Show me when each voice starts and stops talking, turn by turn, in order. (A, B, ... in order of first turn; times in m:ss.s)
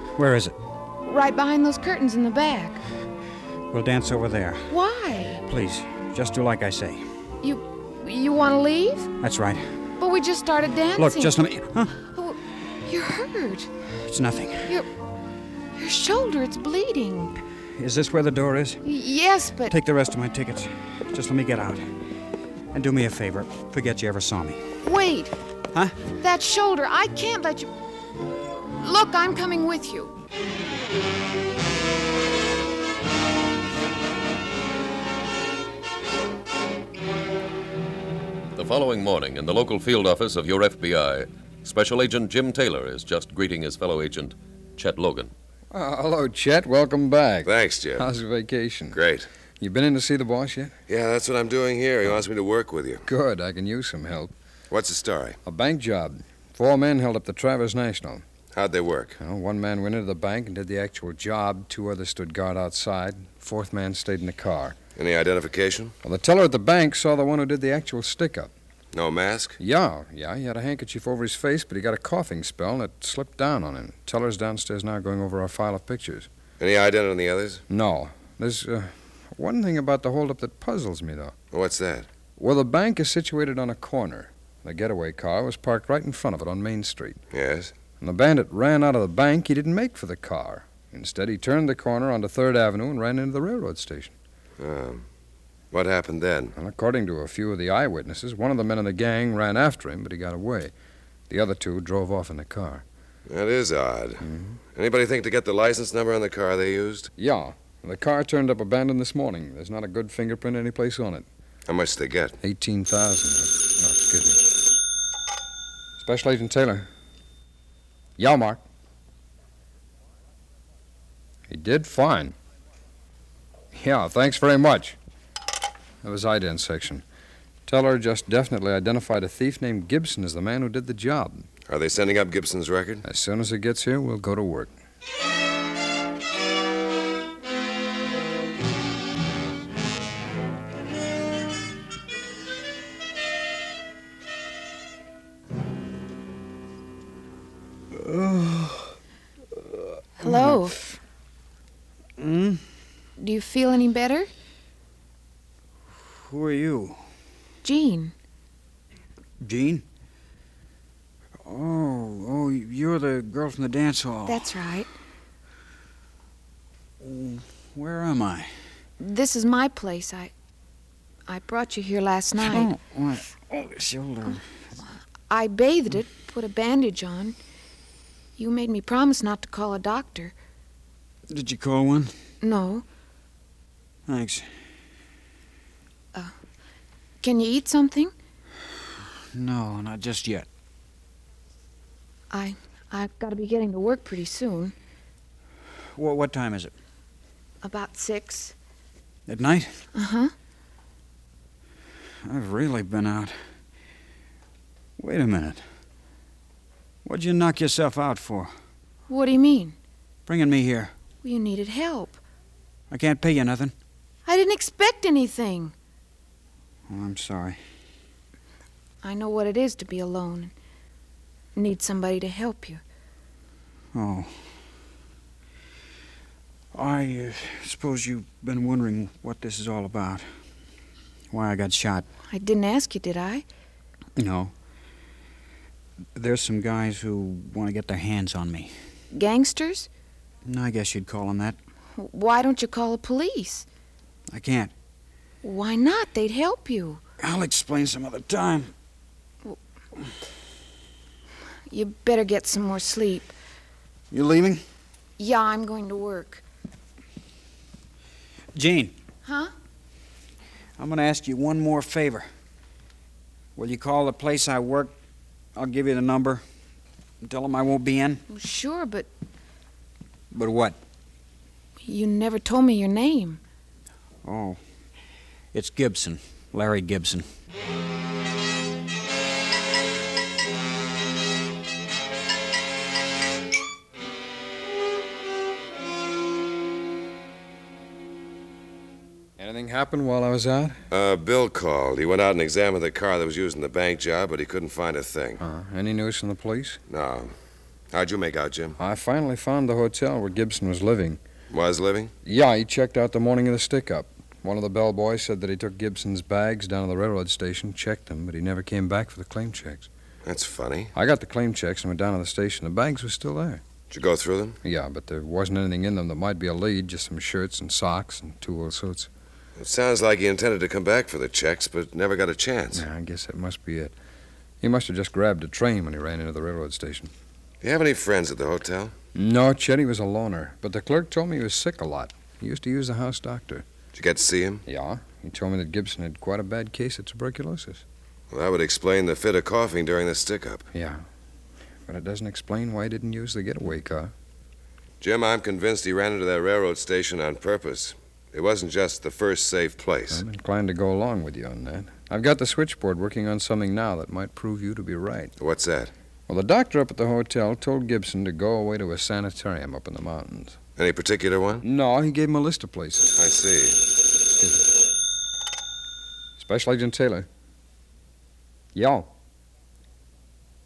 0:00.2-0:00.6 A
0:01.0-0:02.8 B
0:03.7-0:04.7 A
0:04.7-0:05.4 B
0:05.4-0:07.0 A
0:07.4-0:09.1 B
0:09.2-0:09.8 A
0:10.0-0:11.3 B
0:11.0-0:12.0 A
0:12.1-0:13.7 B
0:14.0-0:14.8 A
0:15.7-0:17.3 B
0:17.8-0:18.8 A
0:18.8-0:19.7 B
0:19.7-0:21.9 A
0:22.7-0:24.8 A
0:24.8-0:25.3 B
0:25.7-0:26.0 A
0:26.2-0:27.7 B
0:28.8-0:30.1 B
0:38.5-0:45.3 C
0:45.7-0:49.0 D
0:47.4-0:48.0 E
0:48.9-0:49.3 E
0:49.6-0:50.7 D
0:50.9-0:53.0 E
0:53.0-0:54.3 D
0:54.7-0:55.4 E
0:55.4-0:58.2 D
0:58.5-0:59.2 E
0:59.2-1:04.8 D
1:05.0-1:05.9 E
1:06.0-1:08.5 D
1:08.9-1:09.6 E
1:09.6-1:16.3 D
1:16.6-1:17.6 E
1:17.7-1:21.3 D
1:21.5-1:22.1 E
1:22.4-1:27.2 D
1:27.3-1:27.7 E
1:28.0-1:34.1 D
1:34.6-1:35.0 E
1:35.7-1:36.5 E
1:36.6-1:40.7 D
1:41.3-1:42.8 D
1:43.3-1:47.1 E
1:44.2-1:44.6 D
1:47.2-1:51.3 D
1:51.7-1:52.4 E
1:52.4-1:54.5 D
1:56.0-1:56.9 D
1:58.2-1:58.6 D
2:01.5-2:02.3 D
2:03.7-2:05.0 D
2:06.0-2:07.0 D
2:07.7-2:11.5 D
2:11.7-2:13.0 E
2:13.0-2:14.7 D
2:27.9-2:28.9 A
2:30.2-2:30.7 A
2:30.2-2:30.7 B
2:32.2-2:32.6 A
2:33.2-2:34.3 B
2:36.1-2:37.0 A
2:37.6-2:38.1 B
2:39.4-2:39.8 A
2:41.4-2:44.7 A
2:44.2-2:44.9 B
2:47.0-2:48.5 A
2:49.0-2:50.3 B
2:51.3-2:52.7 B
2:52.4-2:54.4 A
2:55.3-2:57.4 B
2:58.4-3:00.3 B
3:01.3-3:02.1 A
3:02.4-3:02.8 B
3:04.1-3:04.5 A
3:07.2-3:08.1 B
3:09.3-3:10.5 A
3:12.3-3:14.7 B
3:15.9-3:16.7 A
3:17.6-3:18.5 B
3:19.3-3:19.8 A
3:19.9-3:20.3 B
3:22.2-3:23.4 A
3:25.0-3:25.6 A
3:27.0-3:28.5 A
3:29.1-3:29.8 B
3:30.2-3:31.0 A
3:31.2-3:32.2 B
3:32.9-3:33.7 A
3:34.2-3:35.7 B
3:36.9-3:37.6 A
3:39.0-3:40.5 B
3:41.5-3:42.8 B
3:43.9-3:44.3 A
3:46.7-3:50.3 A
3:51.3-3:52.1 A
3:52.3-3:53.4 B
3:54.2-3:54.5 A
3:56.2-3:58.7 A
3:59.1-3:59.9 B
4:00.4-4:01.6 A
4:02.0-4:03.7 B
4:04.3-4:04.7 A
4:05.4-4:07.0 B
4:07.2-4:08.7 A
4:11.7-4:13.3 B
4:14.1-4:14.6 A
4:15.2-4:16.4 B
4:18.5-4:18.9 A
4:19.2-4:19.5 B
4:20.8-4:22.3 A
4:23.6-4:24.9 A
4:25.5-4:26.4 A
4:27.2-4:28.2 A
4:28.3-4:29.1 B
4:30.3-4:30.8 A
4:31.8-4:33.4 B
4:34.2-4:34.6 A
4:35.5-4:37.2 A
4:49.4-4:50.8 D
4:50.9-4:55.4 E
4:55.4-4:56.8 D
4:56.9-4:57.3 E
4:57.9-4:58.8 E
4:58.8-5:01.2 D
5:01.5-5:02.1 E
5:02.2-5:09.9 D
5:10.2-5:10.9 E
5:10.9-5:13.6 D
5:13.9-5:14.6 E
5:14.6-5:19.1 D
5:19.6-5:22.8 E
5:22.7-5:23.9 D
5:24.6-5:27.1 D
5:27.6-5:28.9 E
5:29.1-5:33.6 D
5:33.9-5:34.6 E
5:34.7-5:37.8 D
5:38.3-5:40.7 E
5:40.7-5:41.0 D
5:41.9-5:44.1 D
5:45.0-5:50.2 E
5:50.1-5:55.3 D
5:55.4-5:55.9 E
5:56.3-6:00.6 D
6:00.8-6:01.6 E
6:01.6-6:03.2 D
6:03.2-6:03.8 E
6:04.4-6:04.6 D
6:06.4-6:07.3 D
6:08.7-6:09.1 D